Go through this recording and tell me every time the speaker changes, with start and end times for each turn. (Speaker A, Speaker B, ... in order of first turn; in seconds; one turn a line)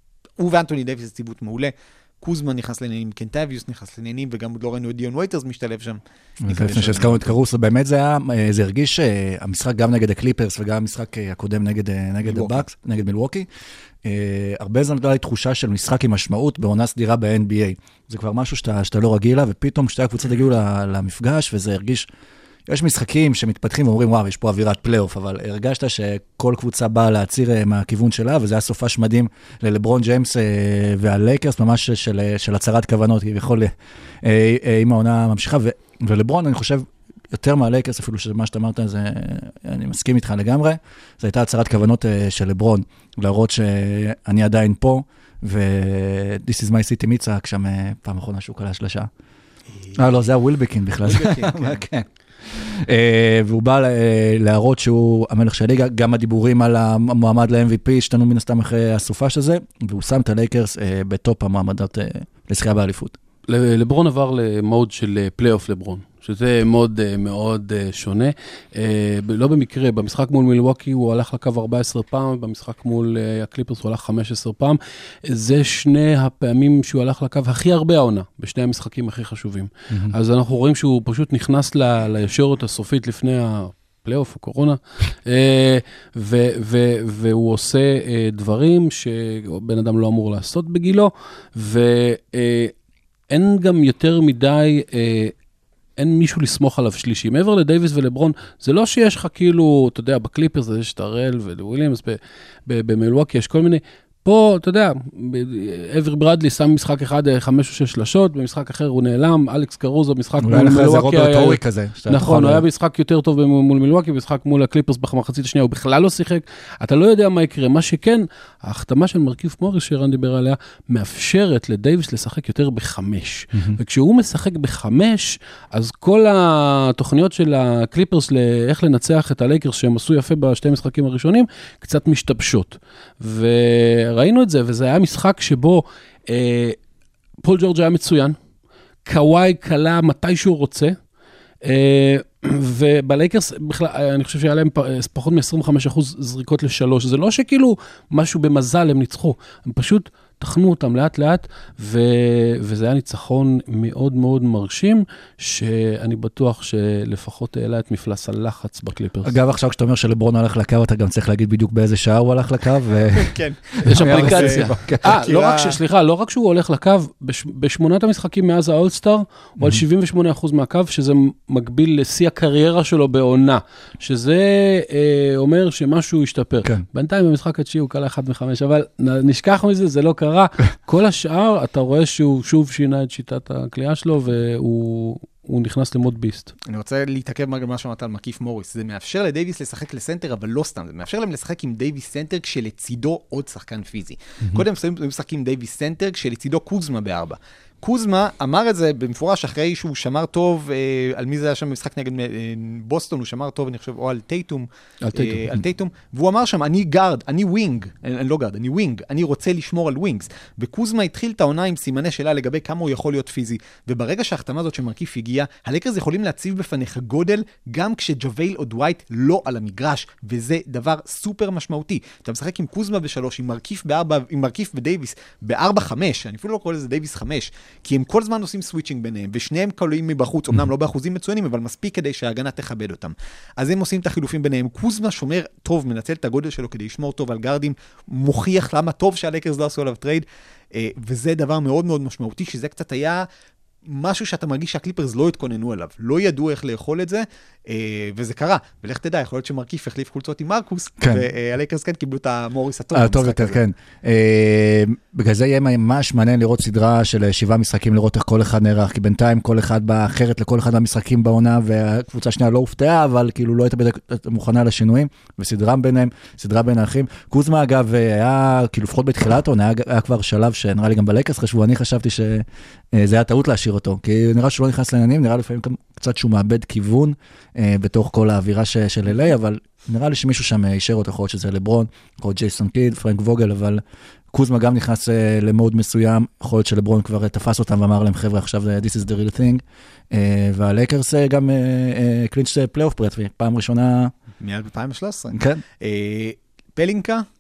Speaker A: 0.4-7.3
Speaker B: 6.4-13.5
Speaker A: 12.2-12.7
Speaker B: 14.0-22.1
Speaker B: 22.7-33.7
Speaker B: 34.2-49.1
Speaker A: 49.8-50.2
Speaker B: 49.9-63.1
Speaker A: 51.0-51.8
Speaker C: 63.5-92.7
Speaker C: 93.3-95.3
Speaker C: 96.0-136.8
Speaker B: 110.4-112.6
Speaker B: 123.5-123.8
Speaker C: 137.4-138.4
Speaker C: 139.0-141.0
Speaker C: 141.6-159.3
Speaker B: 159.2-165.1
Speaker A: 163.1-165.8
Speaker C: 163.8-186.5
Speaker A: 186.7-243.3
Speaker B: 205.0-205.6
Speaker A: 243.8-253.6
Speaker B: 251.0-251.2
Speaker B: 252.9-283.8
Speaker B: 284.3-294.1
Speaker A: 294.4-297.2
Speaker B: 295.3-295.6